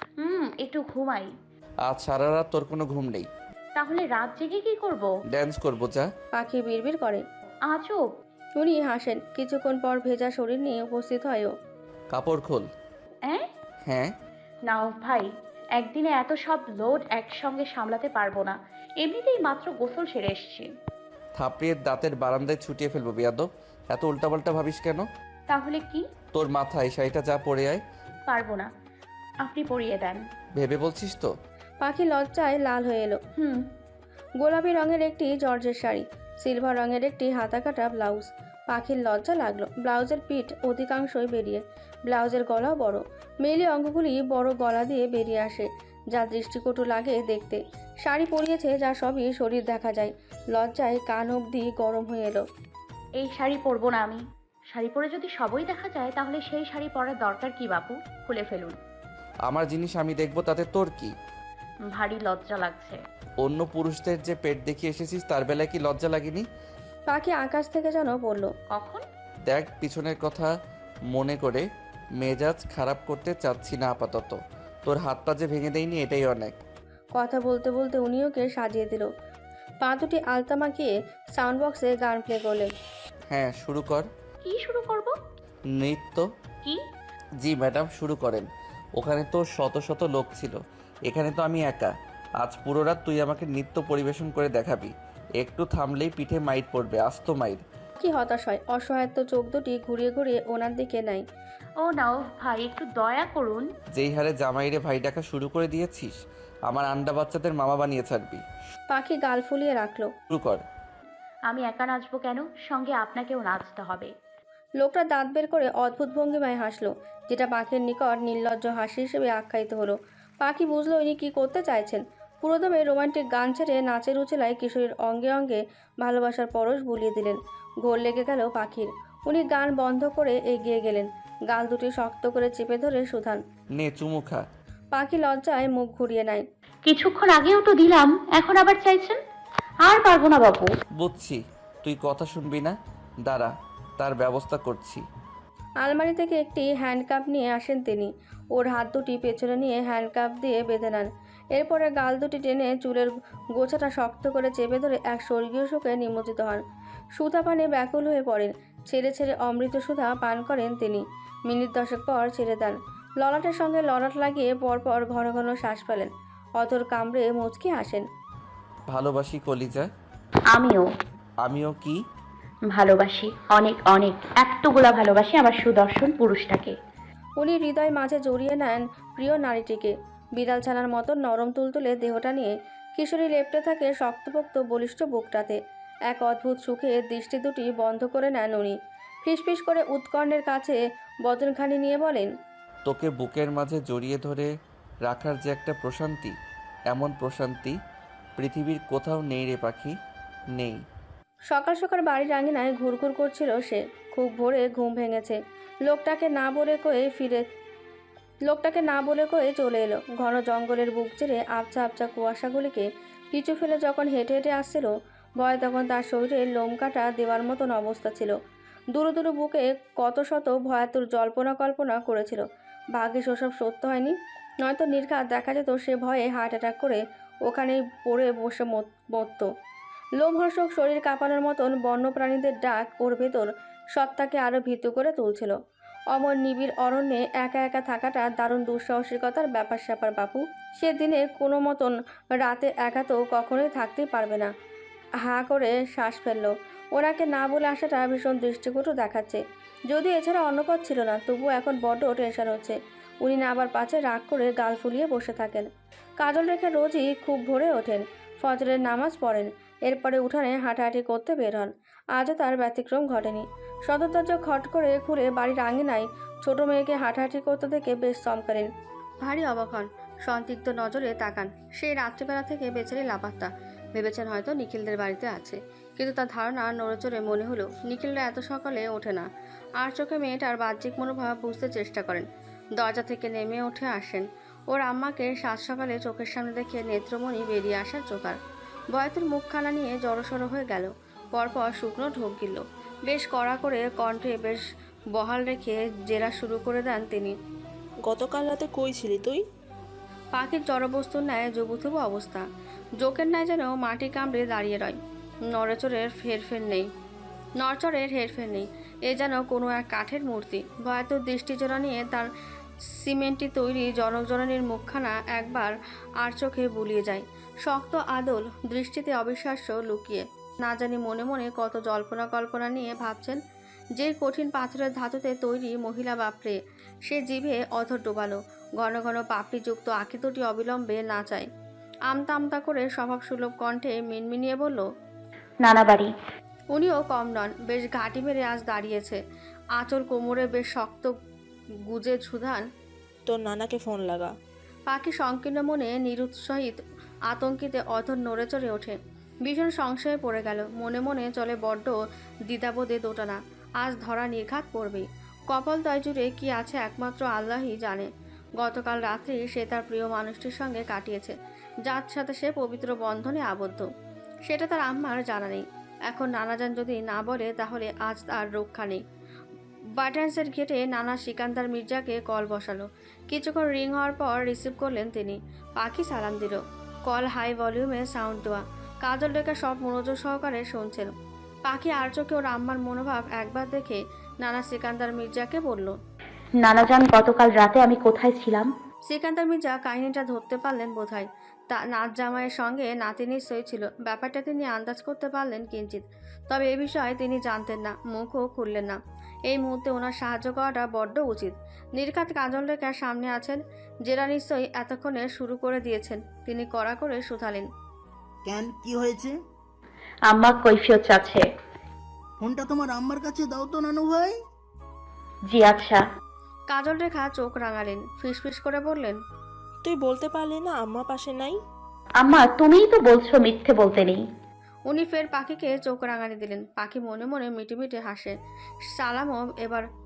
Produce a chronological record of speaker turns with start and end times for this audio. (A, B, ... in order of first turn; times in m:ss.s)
0:00.2-0:01.3 A
0:01.9-0:03.3 B
0:03.8-0:05.1 A
0:05.3-0:06.1 B
0:06.3-0:07.2 C
0:07.7-0:08.0 A
0:08.6-0:11.5 C
0:12.1-0:12.7 B
0:13.8-0:14.1 B
0:14.7-0:20.7 A
0:21.4-0:25.0 B
0:25.5-0:26.0 A
0:26.3-0:27.8 B
0:28.3-0:28.7 A
0:29.4-0:30.2 A
0:30.6-0:31.3 B
0:31.8-0:33.2 C
0:33.4-0:33.6 A
0:34.4-0:52.4 C
0:53.2-0:54.2 A
0:54.7-0:58.8 A
0:59.5-1:01.1 B
1:01.9-1:03.0 A
1:03.4-1:06.4 B
1:07.1-1:08.5 C
1:08.7-1:09.0 A
1:09.5-1:10.5 B
1:11.1-1:11.6 B
1:12.2-1:16.5 B
1:17.2-1:19.1 C
1:19.8-1:22.7 C
1:23.3-1:24.1 B
1:24.4-1:25.1 A
1:25.8-1:26.2 B
1:27.4-1:28.4 B
1:29.0-1:37.6 B
1:38.0-1:41.2 C
1:41.8-1:43.7 A
1:43.9-1:46.1 B
1:46.7-1:48.4 B
1:48.9-1:50.1 C
1:50.3-1:50.6 B
1:51.5-1:54.1 A
1:54.8-2:13.4 C
2:13.8-2:14.4 B
2:14.9-2:16.4 C
2:16.8-2:19.2 A
2:19.8-2:20.7 A
2:21.0-2:25.0 B
2:25.8-2:36.6 C
2:37.2-2:48.0 C
2:48.9-2:49.9 B
2:50.5-2:50.9 A
2:51.4-2:52.0 B
2:52.7-2:56.7 A
2:57.4-3:12.3 C
3:12.8-3:14.5 B
3:15.0-3:16.3 B
3:16.9-3:17.8 B
3:18.4-3:19.9 B
3:21.5-3:27.4 C
3:28.5-3:38.3 C
3:38.9-3:42.4 C
3:42.9-3:49.4 C
3:50.2-3:55.5 C
3:56.1-4:04.5 C
4:05.2-4:15.7 C
4:16.2-4:28.7 C
4:29.2-4:39.3 C
4:39.8-4:42.2 C
4:42.8-4:48.4 C
4:48.9-4:54.6 C
4:55.1-4:57.3 C
4:58.0-4:59.4 D
5:00.3-5:02.4 C
5:03.0-5:05.0 C
5:05.5-5:06.9 C
5:07.6-5:12.3 C
5:12.9-5:23.4 C
5:24.0-5:31.4 C
5:32.1-5:34.8 C
5:35.6-5:36.1 A
5:36.7-5:39.2 C
5:39.8-5:41.1 C
5:41.9-5:42.6 C
5:43.3-5:44.3 D
5:44.9-5:52.0 C
5:52.5-6:01.3 C
6:01.8-6:03.9 C
6:04.5-6:09.0 C
6:10.0-6:21.1 C
6:21.6-6:25.9 C
6:26.6-6:28.7 A
6:29.1-6:47.7 C
6:48.4-6:49.4 E
6:50.3-6:51.4 A
6:52.4-6:54.4 E
6:55.5-6:56.0 A
6:56.7-6:59.2 C
6:59.8-7:01.6 D
7:02.2-7:04.2 A
7:04.9-7:08.3 C
7:08.8-7:09.8 C